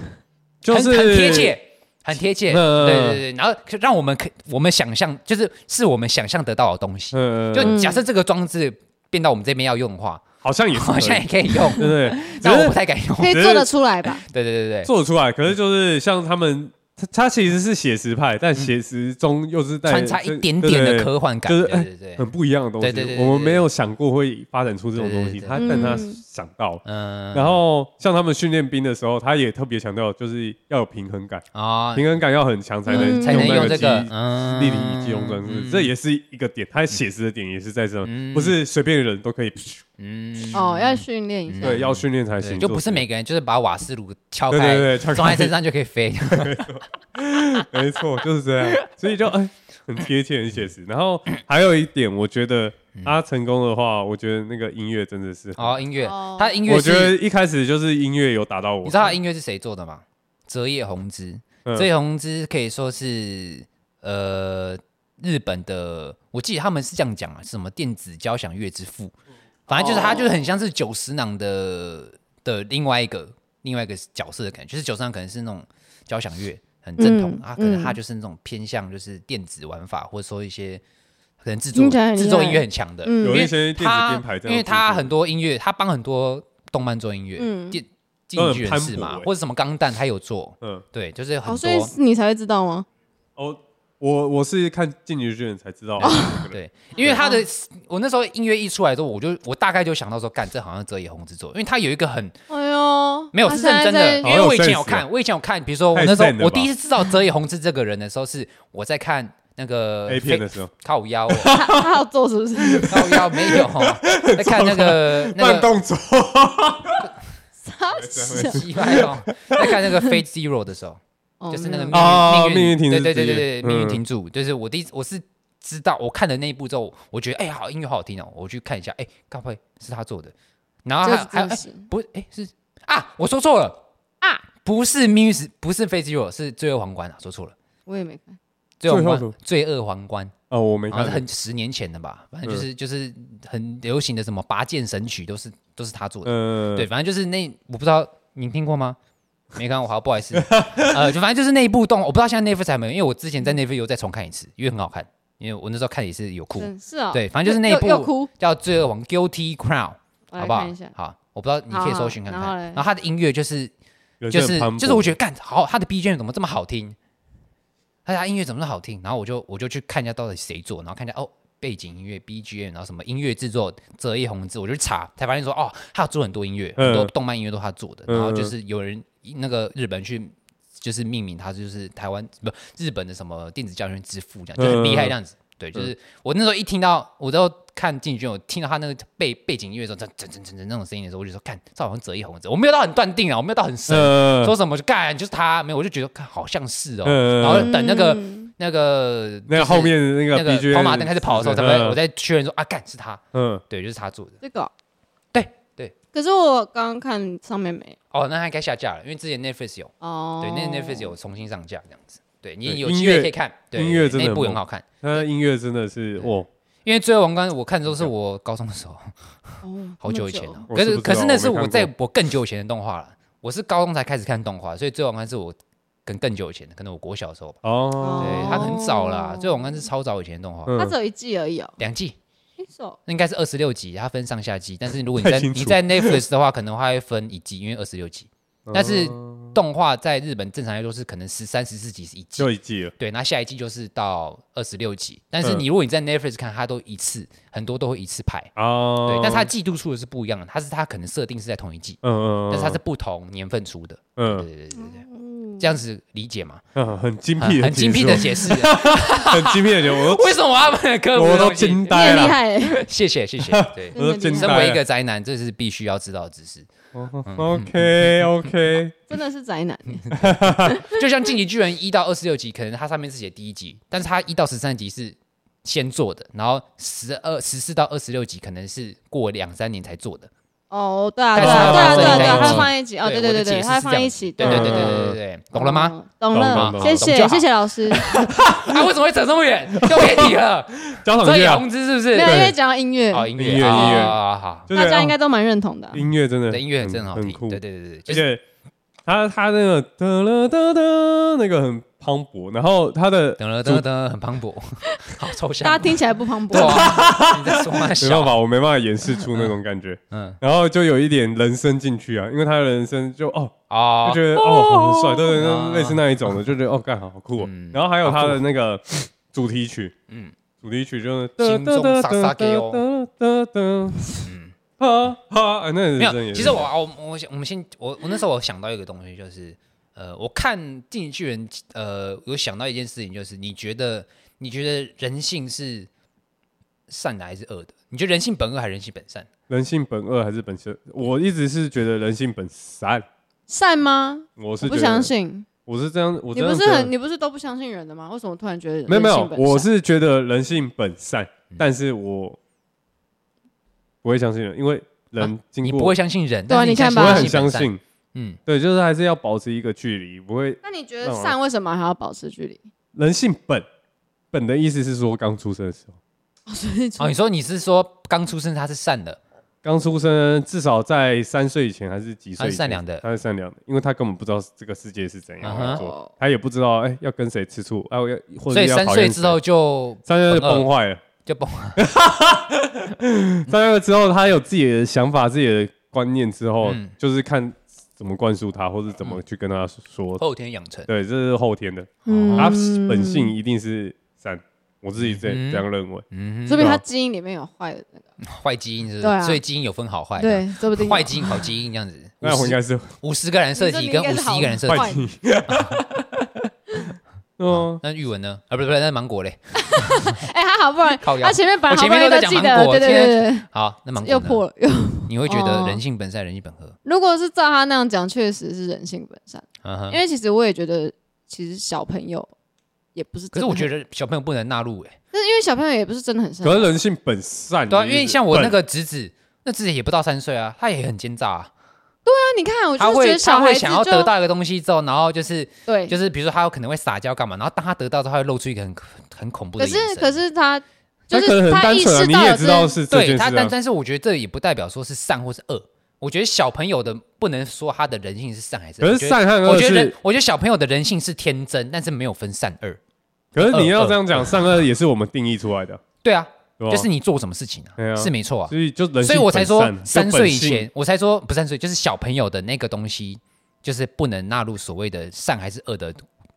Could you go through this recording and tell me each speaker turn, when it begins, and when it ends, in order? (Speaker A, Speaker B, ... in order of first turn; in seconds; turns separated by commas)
Speaker A: 0.6-1.6, Speaker B: 0.7-13.6, Speaker A: 2.5-3.2, Speaker A: 7.1-7.8, Speaker C: 7.6-8.0, Speaker A: 10.4-12.8, Speaker C: 13.2-14.2, Speaker A: 13.3-13.7, Speaker B: 14.3-14.9, Speaker A: 14.8-39.8, Speaker B: 19.9-22.3, Speaker B: 22.8-23.7, Speaker B: 25.0-26.0, Speaker C: 25.6-26.2, Speaker B: 26.9-27.6, Speaker B: 31.5-32.1, Speaker C: 32.9-33.8, Speaker B: 32.9-35.9, Speaker B: 38.0-38.6, Speaker B: 40.0-46.7, Speaker C: 40.5-41.8, Speaker A: 41.6-43.0, Speaker A: 44.5-45.5, Speaker A: 46.3-55.8, Speaker B: 55.6-57.2, Speaker C: 56.0-56.6, Speaker A: 56.7-59.2, Speaker B: 58.8-69.1, Speaker B: 69.7-80.8, Speaker A: 69.7-70.2, Speaker C: 77.0-78.0, Speaker B: 81.4-91.9, Speaker C: 81.7-83.5, Speaker A: 83.2-85.2, Speaker C: 87.4-87.8, Speaker A: 88.4-89.3, Speaker C: 91.5-92.9, Speaker A: 93.4-97.1, Speaker B: 96.0-102.3, Speaker C: 96.0-96.5, Speaker C: 97.0-97.4, Speaker C: 102.5-104.3, Speaker B: 103.3-111.6, Speaker A: 104.2-105.1, Speaker A: 105.9-106.7, Speaker A: 110.1-110.7, Speaker A: 111.3-111.8, Speaker C: 111.5-113.0, Speaker A: 112.6-117.1, Speaker B: 112.9-115.7, Speaker C: 117.6-119.0, Speaker A: 118.0-119.8, Speaker B: 118.3-121.0, Speaker C: 121.4-122.2, Speaker B: 121.5-130.3, Speaker A: 121.9-124.0, Speaker B: 130.8-133.8, Speaker C: 131.0-131.9, Speaker B: 134.4-137.6, Speaker C: 137.9-138.4, Speaker B: 138.8-140.3, Speaker A: 138.9-139.3, Speaker A: 140.5-141.2, Speaker B: 140.9-149.0, Speaker A: 146.2-146.9, Speaker B: 149.5-163.7, Speaker A: 150.4-151.0, Speaker C: 156.6-158.3, Speaker C: 160.3-160.9, Speaker C: 161.7-162.8, Speaker A: 164.2-165.2, Speaker B: 164.3-167.0, Speaker B: 168.1-204.4, Speaker A: 176.8-177.1, Speaker A: 178.1-178.6, Speaker A: 184.6-185.1, Speaker A: 193.9-194.6, Speaker A: 197.0-197.7, Speaker C: 197.5-198.5, Speaker A: 199.5-202.0, Speaker A: 203.3-203.6, Speaker C: 204.4-204.7, Speaker B: 205.3-205.9, Speaker C: 206.1-208.0, Speaker B: 208.1-214.8, Speaker C: 210.0-211.1, Speaker A: 212.7-216.5, Speaker B: 216.8-227.6, Speaker C: 219.6-220.6, Speaker A: 220.7-221.9, Speaker A: 227.6-228.8, Speaker C: 228.0-229.8, Speaker B: 228.2-230.8, Speaker A: 230.7-231.0, Speaker C: 230.8-231.8, Speaker B: 231.8-232.2, Speaker C: 232.6-233.0, Speaker B: 233.1-248.5, Speaker A: 235.2-236.2, Speaker A: 238.7-239.6, Speaker A: 242.4-242.9, Speaker A: 248.6-249.5, Speaker B: 249.0-255.0, Speaker A: 252.0-252.8, Speaker A: 254.2-254.5, Speaker C: 254.8-255.7, Speaker B: 255.6-256.6, Speaker A: 256.8-260.4, Speaker B: 257.4-266.7, Speaker A: 261.1-262.4, Speaker C: 261.9-262.8, Speaker A: 263.5-264.8, Speaker C: 263.9-264.6, Speaker A: 266.9-269.0, Speaker B: 267.2-268.3, Speaker C: 269.1-270.1, Speaker B: 270.0-280.3, Speaker A: 270.2-270.8, Speaker C: 270.7-271.1, Speaker C: 280.7-288.1, Speaker B: 281.3-287.5, Speaker A: 281.4-282.7, Speaker A: 284.4-285.2, Speaker A: 286.3-287.1, Speaker B: 288.0-292.5, Speaker A: 288.1-288.9, Speaker A: 289.8-290.3, Speaker A: 291.0-291.7, Speaker C: 292.1-294.2, Speaker A: 292.2-292.6, Speaker B: 293.1-294.7, Speaker A: 293.4-295.2, Speaker C: 294.7-296.0, Speaker A: 295.9-298.4, Speaker B: 296.5-298.2, Speaker A: 299.1-303.8, Speaker B: 303.4-306.0, Speaker C: 305.6-307.0, Speaker B: 306.5-308.4, Speaker A: 306.5-319.9, Speaker B: 309.3-309.5, Speaker B: 310.1-310.4, Speaker B: 313.7-314.4, Speaker B: 315.3-316.0, Speaker B: 317.4-318.4, Speaker B: 320.1-320.4, Speaker A: 320.6-324.3, Speaker B: 321.4-322.8, Speaker B: 324.2-324.6, Speaker A: 324.8-326.6, Speaker B: 326.0-335.9, Speaker B: 336.9-339.3, Speaker A: 339.5-343.1, Speaker C: 343.5-345.5, Speaker A: 344.4-345.1, Speaker A: 345.7-346.9, Speaker C: 346.3-349.7, Speaker A: 348.9-352.4, Speaker A: 354.0-355.9, Speaker B: 355.2-358.4, Speaker C: 356.5-357.4, Speaker A: 356.9-357.8, Speaker A: 358.5-361.4, Speaker C: 360.6-362.6, Speaker A: 362.9-363.6, Speaker A: 364.3-366.0, Speaker C: 366.5-367.1, Speaker B: 367.0-369.2, Speaker A: 369.6-379.4, Speaker B: 372.4-373.1, Speaker B: 375.4-375.9, Speaker C: 375.6-376.1, Speaker B: 378.5-380.7, Speaker A: 380.1-381.0, Speaker B: 381.2-381.8, Speaker A: 381.8-390.2, Speaker B: 386.6-386.9, Speaker B: 390.2-390.9, Speaker A: 390.9-396.8, Speaker C: 392.1-393.4, Speaker B: 392.1-392.5, Speaker B: 395.0-396.7, Speaker C: 396.5-398.1, Speaker B: 398.2-404.9, Speaker C: 399.0-399.4, Speaker C: 400.2-401.4, Speaker A: 402.2-402.9, Speaker C: 403.6-405.1, Speaker A: 404.7-406.5, Speaker B: 405.5-405.8, Speaker A: 407.4-407.8, Speaker B: 407.5-410.2, Speaker C: 409.6-413.5, Speaker B: 411.0-414.4, Speaker C: 414.0-415.8, Speaker B: 415.1-416.8, Speaker C: 416.9-422.3, Speaker B: 419.6-420.0, Speaker C: 422.9-423.7, Speaker B: 423.3-425.0, Speaker C: 425.1-426.7, Speaker A: 426.4-428.6, Speaker B: 427.7-431.5, Speaker C: 432.1-434.1, Speaker B: 432.8-440.2, Speaker C: 435.7-435.9, Speaker C: 439.6-442.8, Speaker A: 441.1-443.5, Speaker B: 442.9-452.8, Speaker A: 448.8-450.0, Speaker A: 453.3-455.8, Speaker B: 453.4-454.3, Speaker B: 456.0-466.0, Speaker A: 456.6-456.9, Speaker A: 457.8-460.7